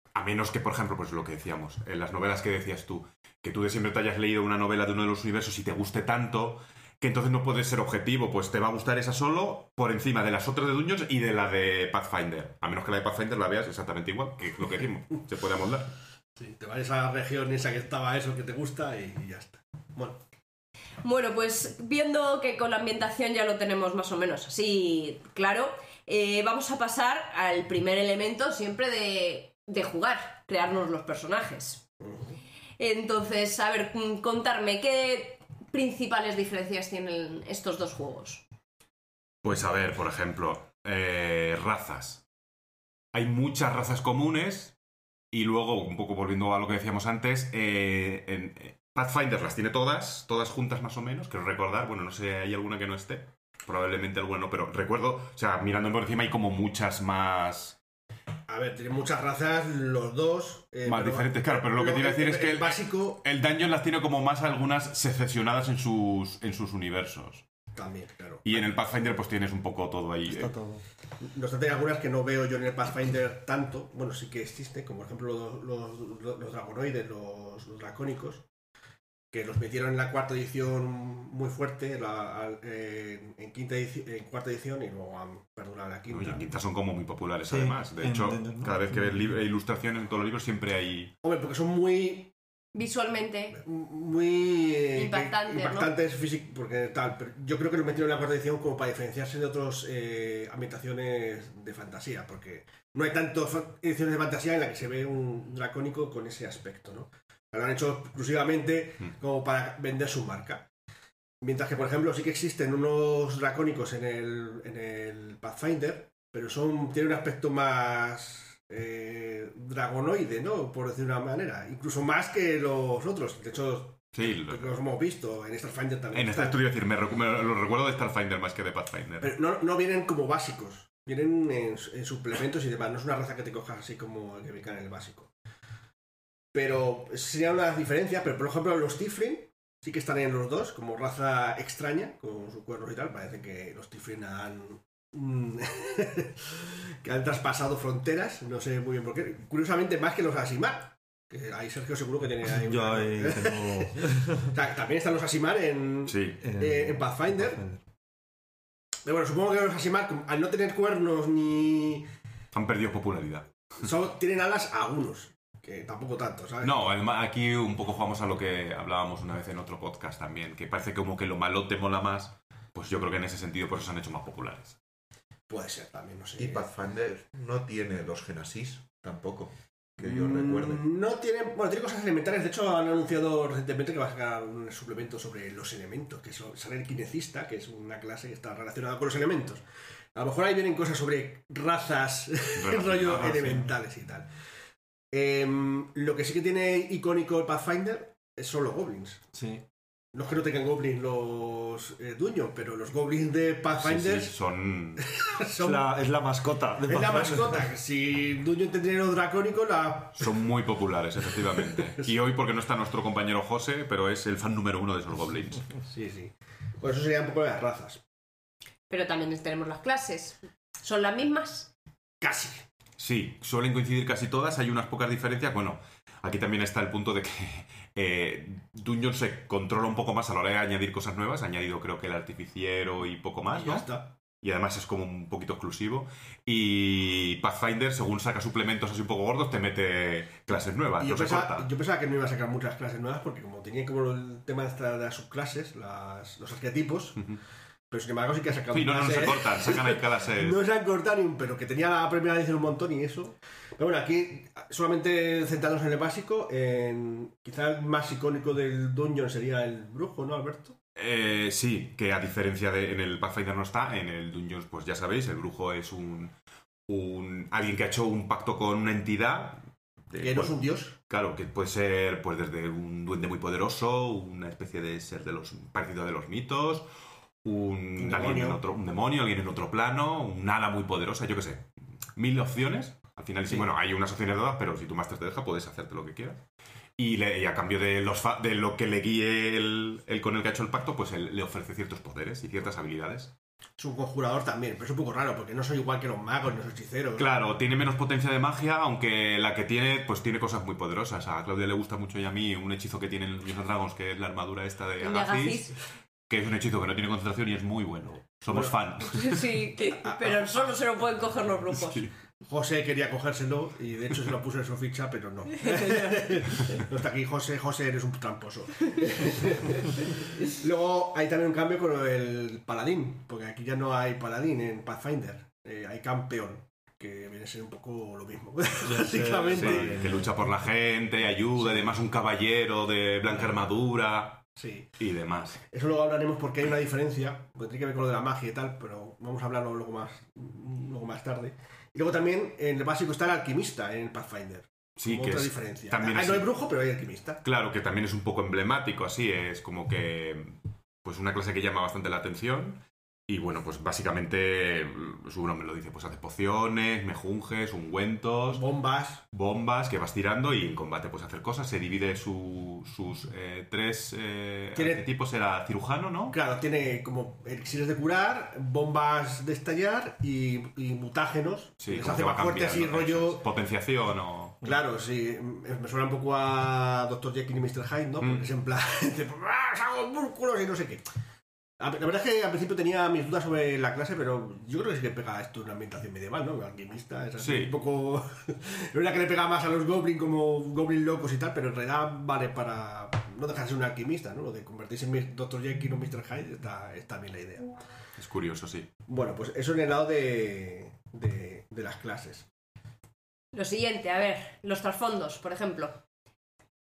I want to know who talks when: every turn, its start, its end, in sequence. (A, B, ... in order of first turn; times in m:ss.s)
0:00.1-0:15.9 A
0:16.4-0:20.2 B
0:21.0-0:31.8 C
0:32.0-0:32.4 B
0:32.8-0:38.4 C
0:39.4-0:42.2 A
0:43.1-0:44.7 A
0:45.3-0:57.8 A
0:58.5-1:03.2 B
1:00.8-1:07.4 A
1:07.7-1:08.7 B
1:08.4-1:10.5 A
1:10.3-1:10.8 D
1:11.2-1:18.4 B
1:19.3-1:26.5 B
1:26.1-1:31.1 A
1:27.5-1:29.3 D
1:31.2-1:32.3 B
1:32.7-1:33.6 C
1:33.5-1:50.7 B
1:34.9-1:35.9 C
1:51.4-2:06.6 B
2:04.1-2:04.7 A
2:06.1-2:09.3 A
2:09.2-2:15.3 B
2:16.5-2:37.6 B
2:32.4-2:34.5 D
2:36.1-2:36.4 A
2:36.4-2:37.8 D
2:39.0-2:42.1 B
2:42.5-2:43.5 A
2:43.8-2:46.9 B
2:46.6-2:54.8 A
2:55.5-2:56.7 B
2:56.4-3:00.8 E
3:00.0-3:09.6 B
3:10.1-3:14.3 B
3:12.6-3:13.6 A
3:13.3-3:13.7 D
3:15.1-3:19.3 B
3:19.3-3:19.6 D
3:20.1-3:24.3 B
3:23.7-3:25.1 A
3:25.0-3:26.0 B
3:25.6-3:27.7 D
3:26.8-3:30.4 B
3:30.2-3:35.7 A
3:31.3-3:32.1 B
3:35.9-3:38.0 B
3:38.9-3:41.7 C
3:42.2-3:42.6 B
3:43.0-4:01.7 A
3:53.5-3:54.1 B
4:01.0-4:07.3 B
4:07.9-4:20.8 B
4:08.7-4:10.6 A
4:21.0-4:26.3 A
4:26.9-4:36.9 A
4:30.2-4:30.9 B
4:37.4-4:46.4 A
4:38.0-4:38.6 B
4:47.0-4:53.3 A
4:53.8-4:57.3 B
4:57.2-5:05.7 A
5:05.0-5:05.8 C
5:06.3-5:09.4 A
5:08.5-5:08.8 B
5:09.1-5:12.1 C
5:10.0-5:10.4 B
5:12.4-5:30.2 B
5:28.8-5:30.3 D
5:29.5-5:35.6 A
5:34.6-5:34.9 B
5:35.6-5:47.4 B
5:45.0-5:46.5 A
5:47.4-5:58.6 A
5:58.5-5:59.2 B
5:59.3-6:06.4 A
6:04.8-6:05.0 B
6:06.3-6:13.4 B
6:11.8-6:14.6 A
6:14.6-6:21.0 B
6:18.2-6:18.5 A
6:21.8-6:37.7 B
6:27.4-6:27.7 A
6:38.2-6:38.9 A
6:39.1-6:42.5 B
6:43.5-6:46.0 C